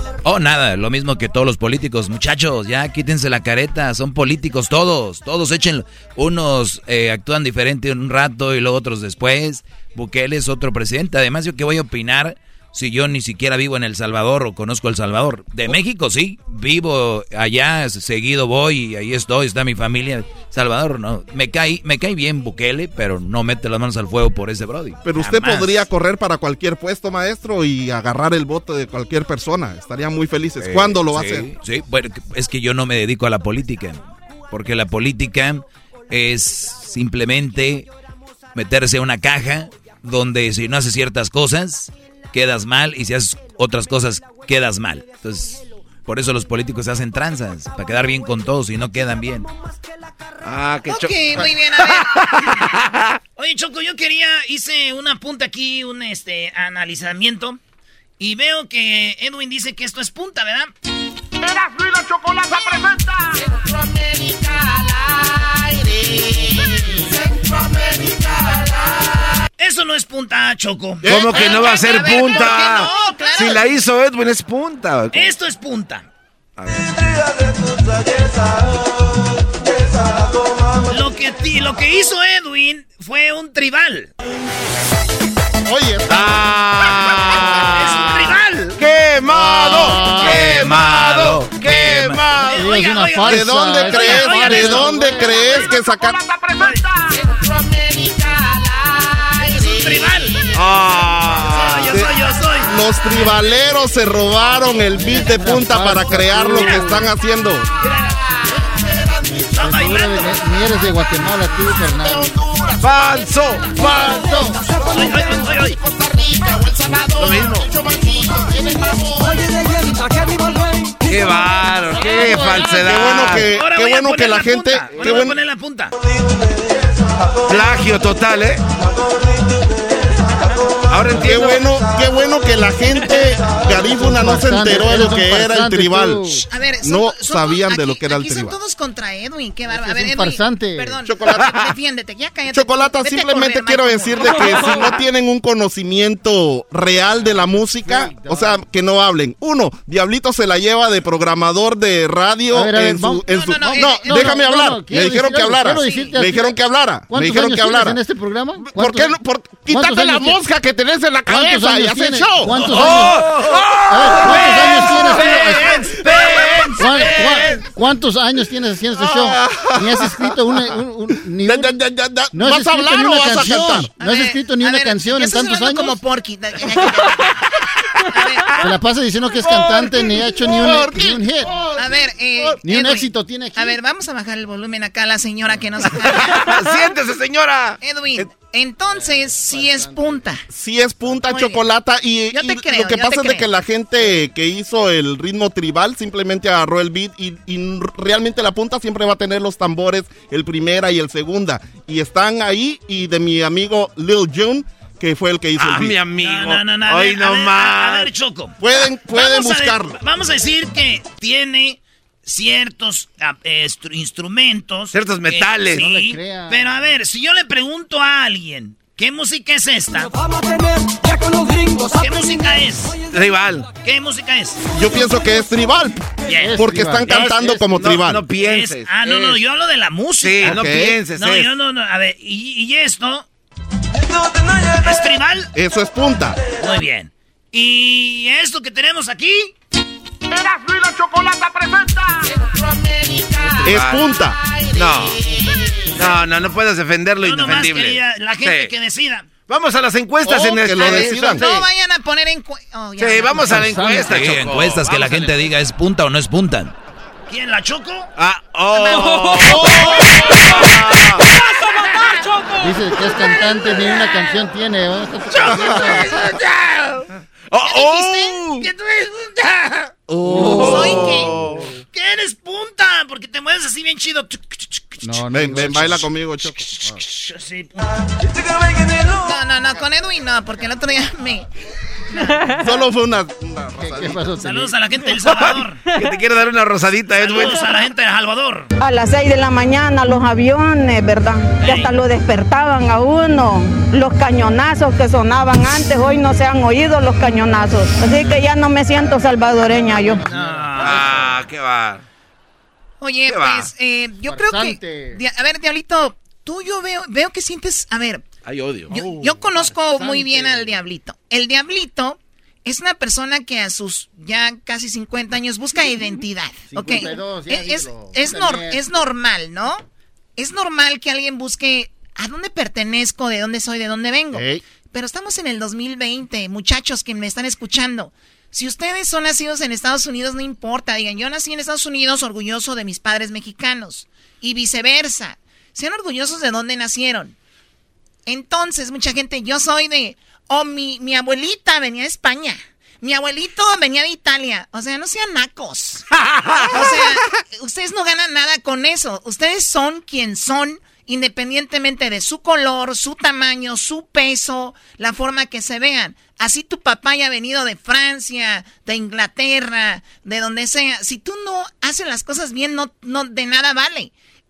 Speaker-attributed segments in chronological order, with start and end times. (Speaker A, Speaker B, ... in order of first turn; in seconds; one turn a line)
Speaker A: 0.2-25.9
Speaker B: 25.0-31.4
Speaker A: 30.6-37.9
Speaker A: 38.5-49.5
Speaker C: 50.4-53.1
Speaker D: 50.9-52.0
Speaker E: 53.4-57.6
Speaker E: 58.2-60.7
Speaker F: 61.5-63.4
Speaker F: 67.9-68.2
Speaker E: 69.6-73.5
Speaker C: 71.0-75.3
Speaker B: 71.0-71.3
Speaker D: 71.3-73.6
Speaker E: 75.1-76.0
Speaker C: 76.6-77.0
Speaker E: 80.9-84.1
Speaker B: 85.7-87.3
Speaker C: 86.1-88.2
Speaker E: 87.5-88.8
Speaker C: 88.8-92.7
Speaker B: 89.3-90.7
Speaker A: 90.2-92.2
Speaker E: 90.2-95.7
Speaker G: 92.6-95.3
Speaker B: 93.2-96.2
Speaker F: 96.3-96.8
Speaker E: 99.3-100.4
Speaker C: 100.5-102.0
Speaker E: 101.5-102.7
Speaker B: 101.9-107.7
Speaker G: 105.0-107.0
Speaker E: 107.8-108.1
Speaker E: 109.6-110.3
Speaker G: 109.6-112.3
Speaker B: 112.2-112.7
Speaker C: 112.8-113.8
Speaker B: 114.0-114.5
Speaker E: 114.9-115.8
Speaker B: 115.8-119.4
Speaker C: 117.2-117.7
Speaker C: 121.0-123.5
Speaker E: 122.2-125.9
Speaker B: 122.5-125.3
Speaker C: 124.9-125.2
Speaker C: 127.4-128.6
Speaker C: 130.9-131.7
Speaker B: 131.1-138.6
Speaker G: 134.0-136.4
Speaker D: 136.3-144.8
Speaker G: 139.7-141.0
Speaker B: 141.0-141.5
Speaker B: 142.5-158.0
Speaker G: 147.8-148.5
Speaker G: 152.5-156.5
Speaker D: 153.3-154.5
Speaker D: 155.8-156.2
Speaker G: 157.1-159.1
Speaker B: 158.6-162.7
Speaker G: 159.7-160.4
Speaker G: 161.3-163.2
Speaker E: 162.5-163.1
Speaker C: 162.6-164.9
Speaker G: 163.9-165.9
Speaker E: 164.2-167.5
Speaker C: 166.2-167.6
Speaker G: 166.8-171.7
Speaker C: 169.0-169.8
Speaker B: 171.4-173.9
Speaker G: 172.3-176.0
Speaker D: 174.0-177.3
Speaker D: 178.1-178.6
Speaker G: 178.6-181.5
Speaker B: 180.5-181.7
Speaker D: 181.8-186.5
Speaker G: 182.6-183.8
Speaker C: 186.1-187.8
Speaker D: 187.8-190.4
Speaker G: 189.0-190.2
Speaker B: 190.5-206.0
Speaker D: 191.3-191.6
Speaker D: 192.3-193.5
Speaker C: 205.6-208.1
Speaker E: 206.2-208.6
Speaker B: 208.6-210.0
Speaker E: 209.1-220.1
Speaker C: 214.9-215.9
Speaker G: 215.8-216.6
Speaker E: 221.8-223.0
Speaker C: 223.0-223.7
Speaker E: 223.8-224.6
Speaker B: 224.7-228.3
Speaker E: 226.2-227.3
Speaker G: 226.4-227.2
Speaker C: 227.1-229.4
Speaker E: 228.3-233.2
Speaker C: 230.2-231.5
Speaker B: 230.4-231.0
Speaker E: 234.8-235.5
Speaker B: 235.5-236.4
Speaker E: 236.6-239.5
Speaker F: 240.4-242.2
Speaker B: 243.6-244.4
Speaker C: 243.6-244.1
Speaker C: 244.7-245.2
Speaker C: 245.9-248.7
Speaker E: 247.2-249.3
Speaker C: 249.5-251.6
Speaker B: 250.2-251.5
Speaker D: 250.8-253.7
Speaker C: 253.0-255.4
Speaker G: 253.5-254.1
Speaker A: 254.0-256.7
Speaker E: 257.3-258.1
Speaker C: 258.2-261.3
Speaker E: 258.7-260.1
Speaker B: 259.5-259.8
Speaker E: 261.9-262.2
Speaker G: 262.6-266.1
Speaker E: 263.1-264.4
Speaker E: 265.3-267.1
Speaker C: 265.7-265.9
Speaker C: 267.5-268.7
Speaker D: 267.7-268.4
Speaker E: 267.8-271.2
Speaker C: 270.1-271.7
Speaker G: 270.3-271.2
Speaker D: 270.4-271.3
Speaker E: 271.9-275.2
Speaker G: 275.0-276.1
Speaker B: 275.2-276.6
Speaker E: 276.6-277.9
Speaker D: 279.1-281.5
Speaker D: 282.1-282.4
Speaker B: 282.5-284.3
Speaker G: 283.8-284.7
Speaker E: 284.3-285.8
Speaker C: 285.2-287.8
Speaker E: 287.2-288.7
Speaker H: 288.8-300.2
Speaker E: 291.6-291.9
Speaker G: 299.8-301.3
Speaker D: 300.3-301.0
Speaker E: 300.3-301.0
Speaker C: 300.8-302.0
Speaker D: 303.0-308.2
Speaker C: 303.3-303.7
Speaker G: 304.3-305.2
Speaker C: 308.4-309.0
Speaker D: 308.9-319.8
Speaker G: 309.2-310.7
Speaker G: 316.7-318.8
Speaker D: 320.4-337.3
Speaker B: 324.3-324.6
Speaker D: 338.2-346.1
Speaker C: 346.3-346.8
Speaker D: 346.6-364.1